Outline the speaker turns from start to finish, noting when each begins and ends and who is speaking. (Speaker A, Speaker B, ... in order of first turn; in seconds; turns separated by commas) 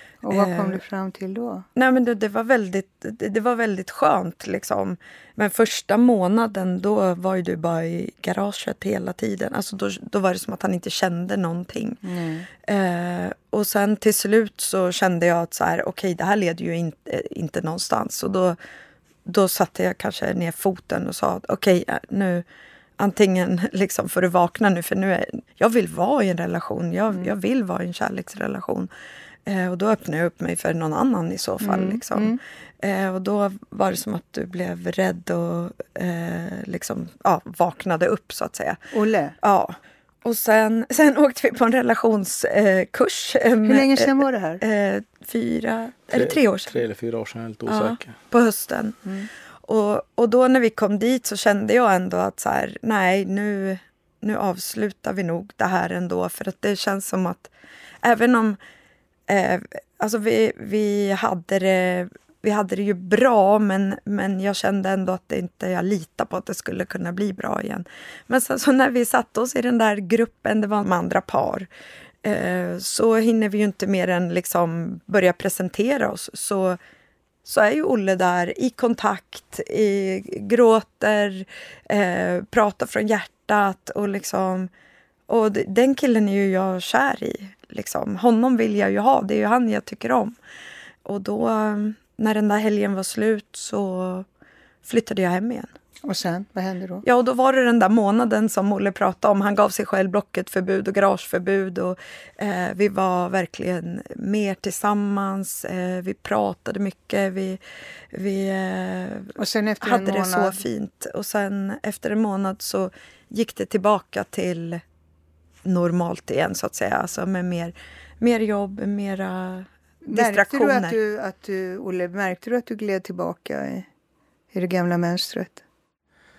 Speaker A: 0.2-1.6, Speaker B: 0.3-0.8, Speaker B: 1.8-12.0, Speaker A: 12.0-12.5, Speaker B: 12.7-18.6, Speaker B: 19.2-22.4, Speaker B: 23.0-28.9, Speaker B: 29.4-38.8, Speaker A: 31.6-32.4, Speaker A: 38.9-39.4, Speaker B: 39.4-46.7, Speaker A: 43.6-44.6, Speaker C: 46.1-48.1, Speaker B: 47.7-49.0, Speaker B: 49.7-57.5, Speaker B: 58.0-58.6, Speaker B: 59.3-71.7, Speaker B: 72.2-76.8, Speaker B: 77.4-84.7, Speaker B: 85.3-90.3, Speaker B: 91.0-94.2, Speaker B: 94.8-95.7, Speaker A: 96.0-97.0, Speaker B: 97.0-107.6, Speaker B: 108.1-114.8, Speaker A: 109.4-110.6, Speaker B: 115.6-121.0, Speaker A: 120.0-123.9, Speaker A: 124.5-125.6